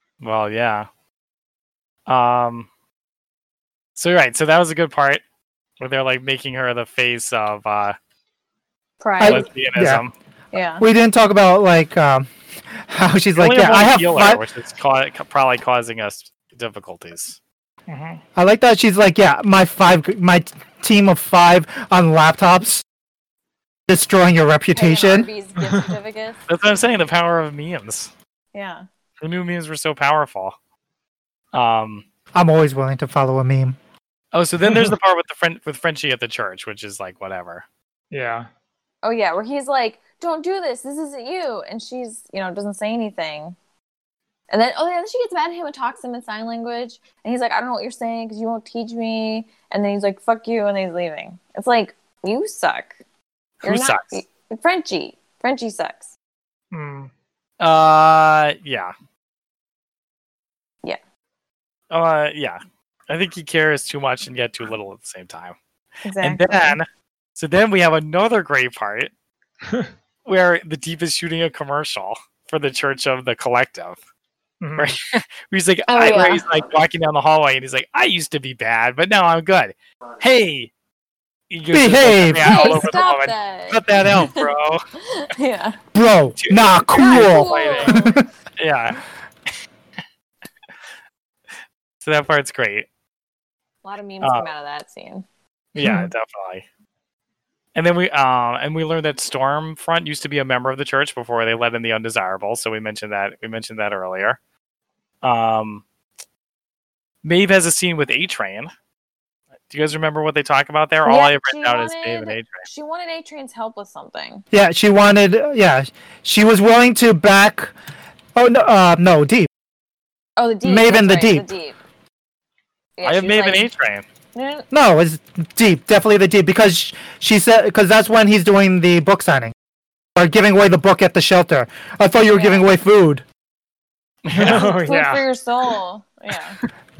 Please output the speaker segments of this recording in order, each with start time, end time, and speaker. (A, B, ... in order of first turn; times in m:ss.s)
0:00.2-0:00.9 A
0:02.1-0:02.7 A
0:04.0-0:05.2 A
0:05.8-0:08.0 A
0:09.0-0:09.5 B
0:09.2-0:10.0 C
0:09.2-0:10.1 A
0:10.5-0:10.8 B
0:10.8-0:14.4 C
0:13.4-0:17.4 A
0:17.9-0:18.2 D
0:18.4-0:22.8 C
0:23.9-0:25.3 C
0:24.7-0:26.4 B
0:26.5-0:28.1 A
0:28.5-0:28.8 B
0:29.2-0:30.6 A
0:31.5-0:32.0 A
0:32.3-0:33.8 C
0:34.3-0:37.6 A
0:34.6-0:34.9 D
0:38.1-0:38.5 D
0:39.0-0:43.6 B
0:44.5-0:53.0 B
0:53.6-0:54.2 A
0:53.6-0:56.1 B
0:56.7-0:57.1 D
0:57.6-0:58.9 A
1:01.9-1:05.6 A
1:06.0-1:06.8 B
1:06.2-1:09.1 A
1:10.3-1:14.0 A
1:14.6-1:14.9 D
1:14.8-1:20.7 A
1:15.9-1:16.4 B
1:21.5-1:24.8 A
1:21.7-1:22.9 C
1:22.4-1:24.4 B
1:25.0-1:25.8 B
1:25.9-1:28.2 C
1:26.4-1:29.0 A
1:26.9-1:28.2 B
1:32.0-1:32.9 A
1:33.8-1:35.2 B
1:34.2-1:34.5 A
1:35.7-1:36.6 A
1:35.8-1:36.1 D
1:37.7-1:44.4 A
1:45.2-1:45.8 A
1:47.2-1:48.7 A
1:49.7-1:52.6 A
1:51.1-1:54.4 B
1:54.5-1:57.7 C
1:58.4-1:59.5 C
2:00.4-2:01.8 B
2:00.6-2:01.5 C
2:03.0-2:03.7 B
2:03.0-2:04.0 A
2:04.3-2:04.7 B
2:04.7-2:09.5 C
2:10.2-2:13.2 C
2:12.3-2:12.7 B
2:14.2-2:14.7 A
2:14.3-2:15.2 D
2:14.4-2:16.6 B